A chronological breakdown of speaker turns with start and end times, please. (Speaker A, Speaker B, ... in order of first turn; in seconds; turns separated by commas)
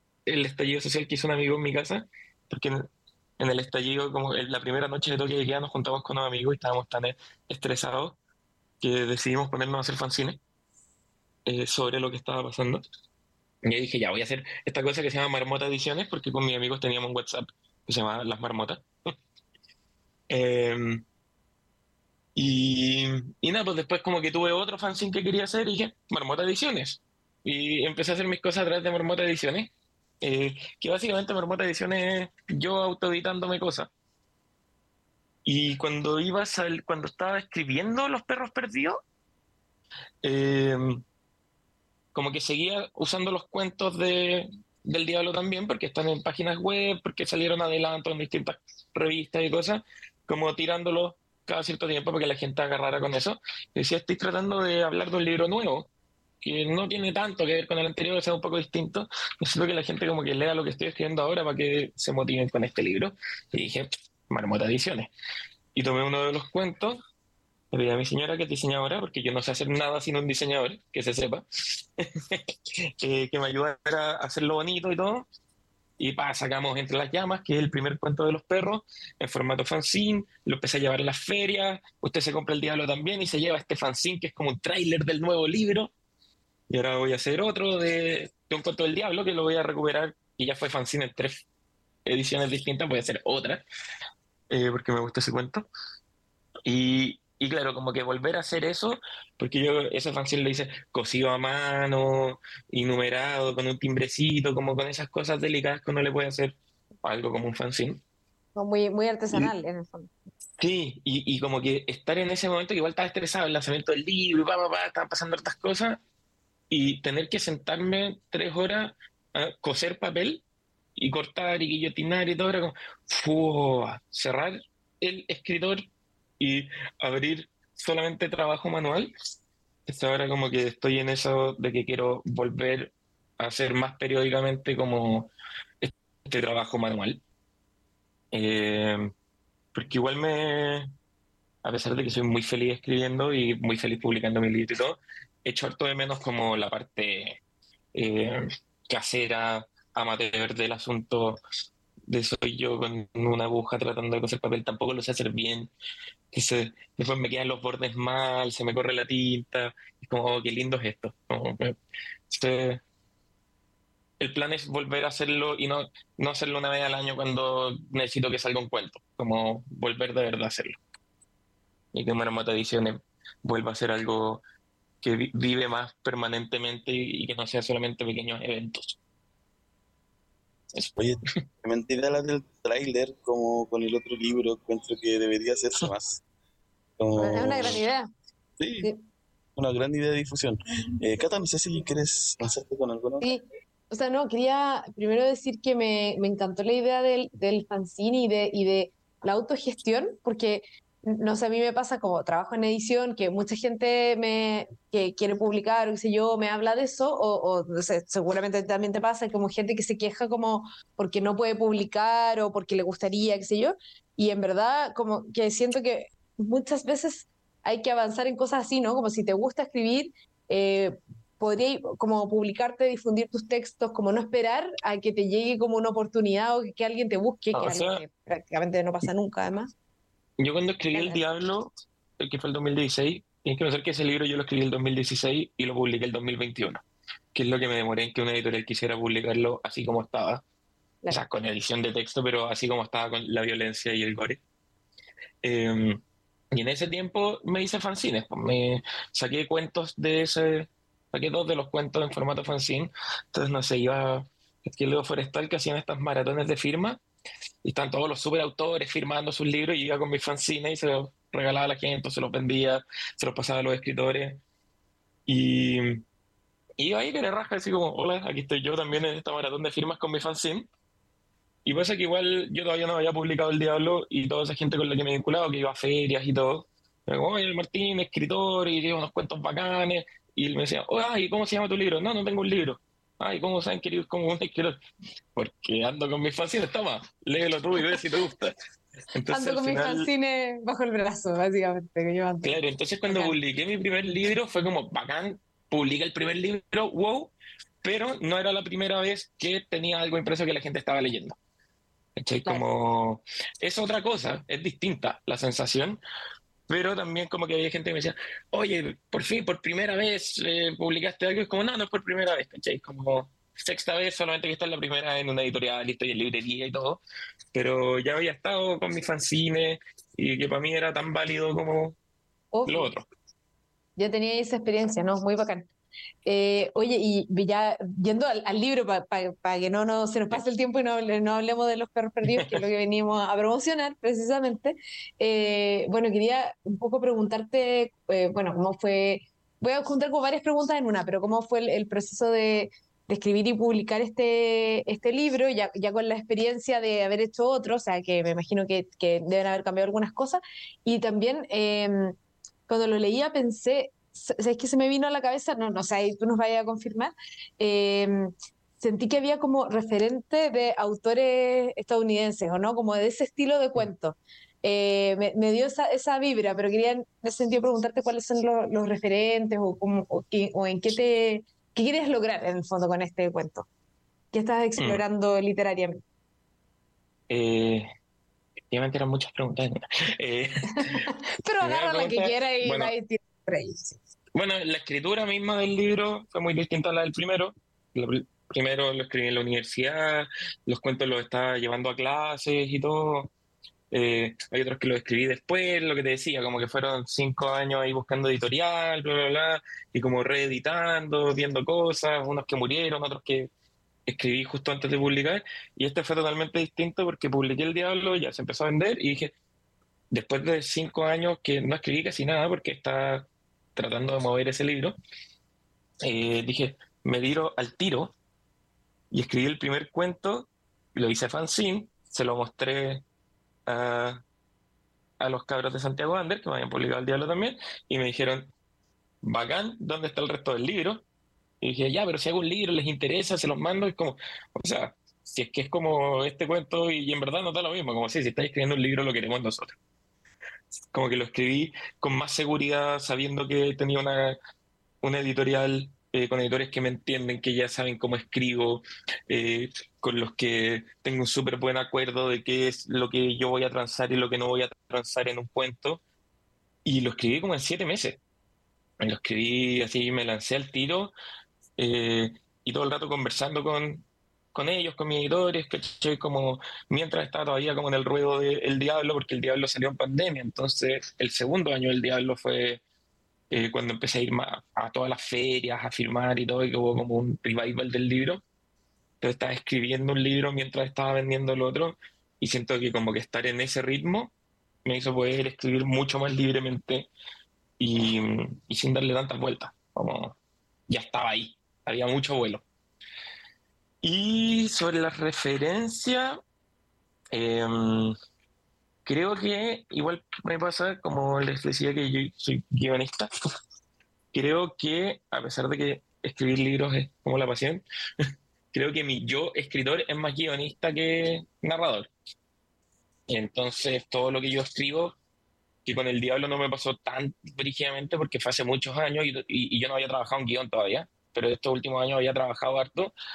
Speaker A: 0.3-2.8, Speaker A: 3.4-8.2, Speaker A: 8.8-10.4, Speaker A: 11.5-12.8, Speaker A: 13.7-19.1, Speaker A: 20.3-21.0, Speaker A: 22.4-33.9, Speaker A: 35.5-39.0, Speaker A: 40.2-41.0, Speaker A: 42.1-55.9, Speaker A: 56.4-65.1, Speaker A: 65.8-67.0, Speaker A: 67.7-72.4, Speaker A: 73.0-75.3, Speaker A: 76.0-85.9, Speaker A: 86.7-91.4, Speaker A: 92.1-93.6, Speaker A: 94.5-95.7, Speaker A: 96.7-108.0, Speaker B: 108.6-110.1, Speaker A: 110.6-116.0, Speaker A: 116.7-120.4, Speaker A: 121.0-125.8, Speaker A: 126.4-129.1, Speaker A: 129.9-137.2, Speaker A: 138.3-139.1, Speaker A: 139.7-140.9, Speaker A: 141.6-147.4, Speaker A: 147.9-151.4, Speaker A: 152.1-155.7, Speaker A: 156.3-161.8, Speaker A: 162.3-162.8, Speaker A: 164.2-170.8, Speaker A: 171.9-174.4, Speaker A: 175.0-179.0, Speaker C: 181.0-186.2, Speaker C: 187.0-187.8, Speaker B: 187.2-188.1, Speaker C: 188.6-188.9, Speaker C: 189.6-193.3, Speaker B: 193.2-229.7, Speaker A: 227.5-228.0, Speaker A: 230.4-240.4, Speaker B: 230.9-231.2, Speaker A: 241.1-244.4, Speaker A: 245.4-246.0, Speaker A: 246.5-257.0, Speaker A: 257.6-264.4, Speaker A: 265.3-266.0, Speaker A: 266.8-270.7, Speaker A: 271.6-284.8, Speaker A: 285.4-288.5, Speaker A: 289.1-290.1, Speaker B: 289.3-293.4, Speaker A: 292.4-301.4, Speaker A: 302.2-306.0, Speaker A: 306.7-317.0, Speaker A: 317.5-322.0, Speaker B: 322.5-322.9, Speaker A: 322.7-323.1, Speaker B: 324.0-325.7, Speaker B: 326.2-352.1, Speaker A: 332.2-332.6, Speaker B: 352.7-373.7, Speaker B: 374.3-376.0, Speaker A: 374.8-375.0, Speaker A: 377.3-377.9, Speaker A: 378.7-381.0, Speaker B: 380.8-384.0, Speaker A: 381.6-382.9, Speaker A: 384.4-393.3, Speaker A: 393.9-403.5, Speaker A: 404.1-409.3, Speaker A: 410.1-415.0, Speaker A: 416.0-418.1, Speaker A: 419.1-423.0, Speaker A: 423.7-424.2, Speaker A: 425.2-428.5, Speaker A: 429.2-431.0, Speaker A: 431.6-439.8, Speaker A: 440.9-444.4, Speaker A: 445.0-456.0, Speaker A: 456.9-458.2, Speaker A: 459.0-461.1, Speaker A: 461.8-472.8, Speaker A: 473.5-478.4, Speaker A: 479.2-484.3, Speaker A: 484.9-487.1, Speaker A: 487.8-490.4, Speaker A: 490.9-492.6, Speaker A: 494.0-496.4, Speaker A: 497.3-498.1, Speaker A: 499.1-503.3, Speaker A: 504.3-507.8, Speaker A: 508.7-512.1, Speaker A: 513.3-515.2, Speaker A: 515.9-523.1